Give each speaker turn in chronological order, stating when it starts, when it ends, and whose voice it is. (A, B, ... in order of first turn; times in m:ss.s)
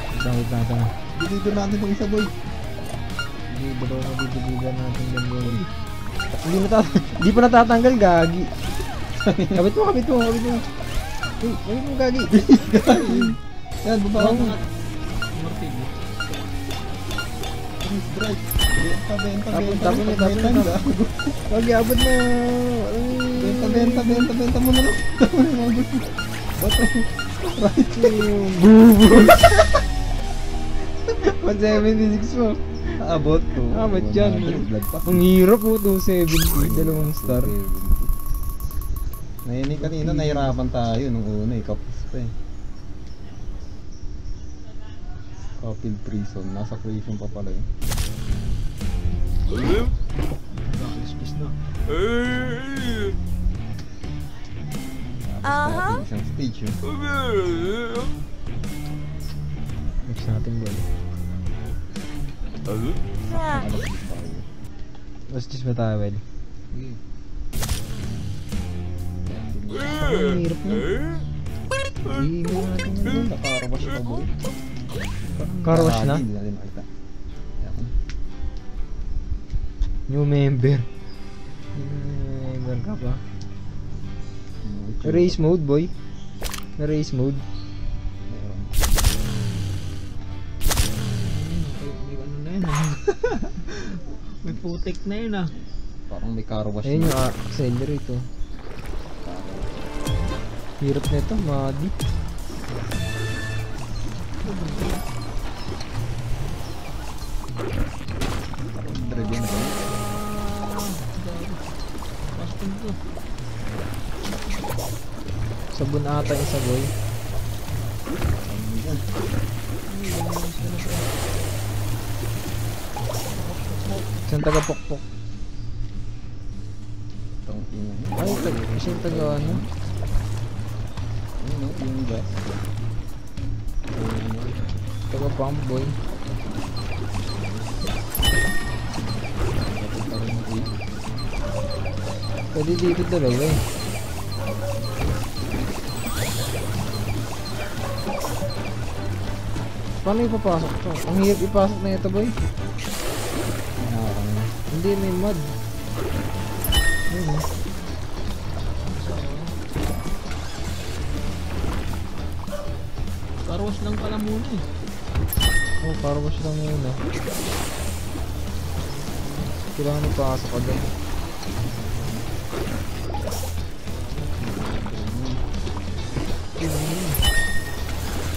0:00.2-0:00.9 A
0:01.2-0:02.3 B
0:03.5-0:05.6 A
0:06.4-0:08.5 A
0:09.2-0:09.6 B
0:09.6-0:10.7 A
0:11.4-0:12.3 A
0:12.3-0:14.6 B
0:12.9-0:13.3 C
0:14.2-0:14.6 C
0:14.2-0:14.5 A
0:15.3-0:16.0 C
0:17.8-0:21.4 B
0:19.5-0:20.8 A
0:21.5-0:24.3 A
0:23.4-0:28.6 B
0:28.0-0:29.7 A
0:31.2-0:33.0 A
0:33.0-0:35.2 B
0:33.7-0:37.5 A
0:36.6-0:38.1 B
0:39.4-0:42.3 B
0:40.0-0:40.5 A
0:45.6-0:47.7 B
0:50.6-0:51.6 C
0:55.3-0:56.8 B
1:00.1-1:00.9 A
1:03.5-1:04.5 B
1:05.3-1:06.2 A
1:06.7-1:07.0 C
1:09.3-1:10.1 B
1:10.0-1:10.9 A
1:12.1-1:13.3 A
1:13.0-1:14.3 B
1:15.3-1:15.7 C
1:15.6-1:16.2 A
1:15.6-1:16.9 B
1:17.6-1:17.9 B
1:20.1-1:20.9 A
1:21.8-1:23.2 A
1:24.6-1:25.4 B
1:25.0-1:25.9 A
1:26.8-1:27.4 A
1:28.3-1:28.7 B
1:31.1-1:35.5 C
1:36.1-1:37.3 B
1:36.8-1:38.2 A
1:39.2-1:39.7 B
1:40.8-1:41.9 A
1:44.4-1:45.0 C
1:48.8-1:49.9 B
1:49.9-1:51.7 C
1:52.4-1:53.0 C
1:55.7-1:56.9 A
1:58.3-1:59.0 B
1:59.9-2:01.1 C
2:03.4-2:04.1 B
2:04.3-2:05.0 A
2:07.5-2:09.7 B
2:08.2-2:09.6 A
2:11.4-2:12.4 B
2:13.9-2:15.3 B
2:15.1-2:16.0 A
2:16.3-2:16.7 B
2:19.6-2:20.7 B
2:22.5-2:23.6 A
2:24.6-2:24.9 B
2:30.0-2:32.4 A
2:33.8-2:34.5 B
2:34.7-2:35.4 A
2:37.1-2:37.4 A
2:38.8-2:39.5 C
2:43.5-2:44.6 C
2:45.8-2:47.0 A
2:48.8-2:49.5 C
2:49.8-2:50.8 A
2:54.4-2:55.4 B
2:56.6-2:57.2 A